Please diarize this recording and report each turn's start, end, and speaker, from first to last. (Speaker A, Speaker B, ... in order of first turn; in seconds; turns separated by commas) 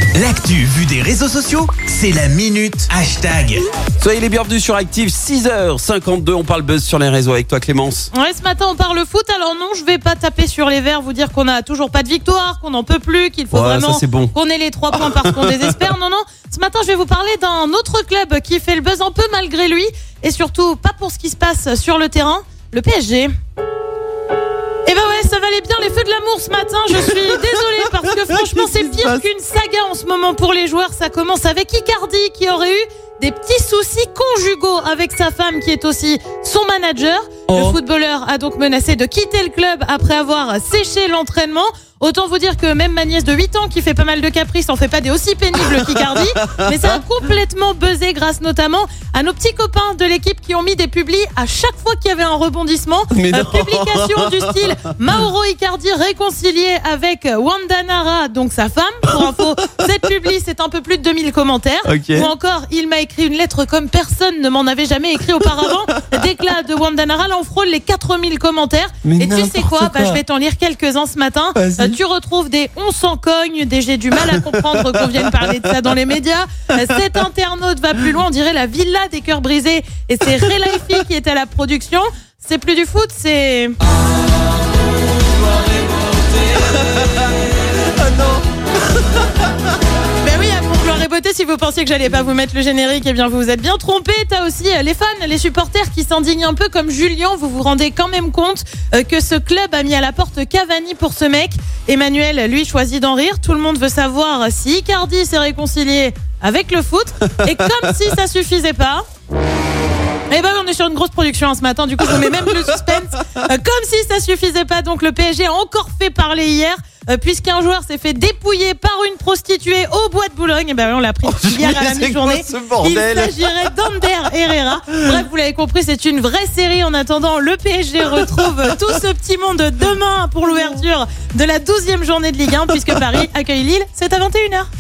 Speaker A: 0.1-3.6, Speaker B: 4.0-8.1, Speaker C: 8.1-23.3, Speaker B: 13.5-14.3, Speaker B: 14.9-15.7, Speaker C: 24.9-83.8, Speaker B: 28.3-29.2, Speaker B: 37.5-37.8, Speaker B: 45.7-47.0, Speaker B: 53.1-54.7, Speaker B: 61.9-62.3, Speaker B: 69.0-70.2, Speaker B: 71.5-72.0, Speaker B: 74.3-75.3, Speaker B: 85.5-87.3, Speaker B: 87.9-88.5, Speaker C: 90.2-109.0, Speaker C: 110.3-134.7, Speaker B: 121.2-123.3